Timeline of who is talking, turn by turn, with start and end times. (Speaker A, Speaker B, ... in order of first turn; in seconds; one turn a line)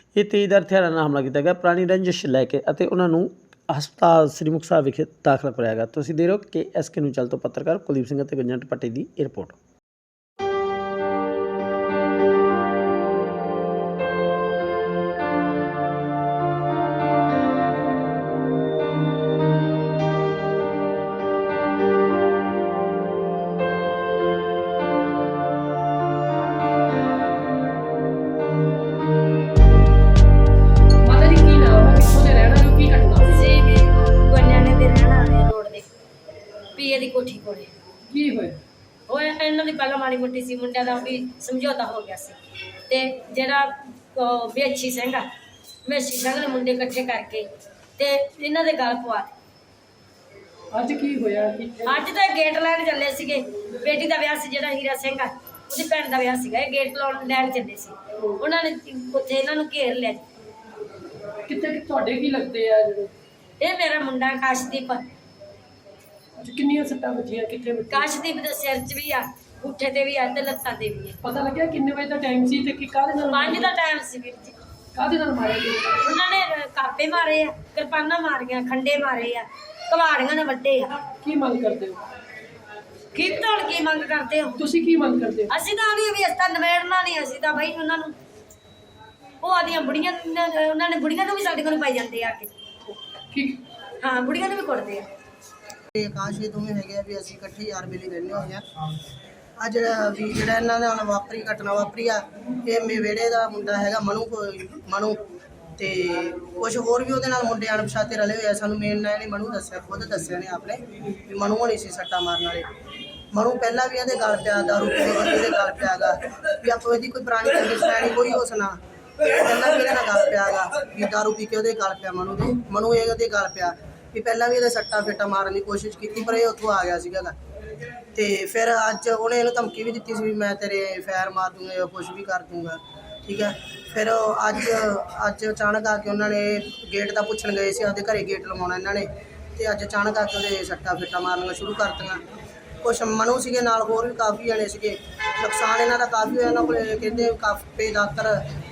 Speaker A: 0.1-9.6
Speaker B: 31.0-33.4
Speaker C: 33.3-35.9
Speaker C: 36.8-37.7
Speaker B: 38.1-38.6
Speaker C: 39.1-42.4
Speaker C: 42.9-45.3
Speaker C: 45.8-47.5
Speaker C: 48.0-49.3
Speaker B: 50.7-52.0
Speaker C: 51.9-60.2
Speaker B: 61.5-63.1
Speaker C: 63.6-65.0
Speaker B: 66.4-68.1
Speaker C: 67.9-71.2
Speaker B: 71.2-73.8
Speaker C: 73.3-74.5
Speaker B: 75.0-76.1
Speaker C: 76.0-81.1
Speaker B: 81.2-82.0
Speaker C: 83.1-84.6
Speaker B: 84.6-85.5
Speaker C: 85.5-88.2
Speaker C: 89.4-92.5
Speaker B: 93.3-93.6
Speaker C: 94.0-95.1
Speaker D: 95.9-98.6
Speaker D: 99.6-105.2
Speaker D: 105.8-112.7
Speaker D: 113.3-127.3
Speaker D: 128.1-142.2
Speaker D: 142.8-148.4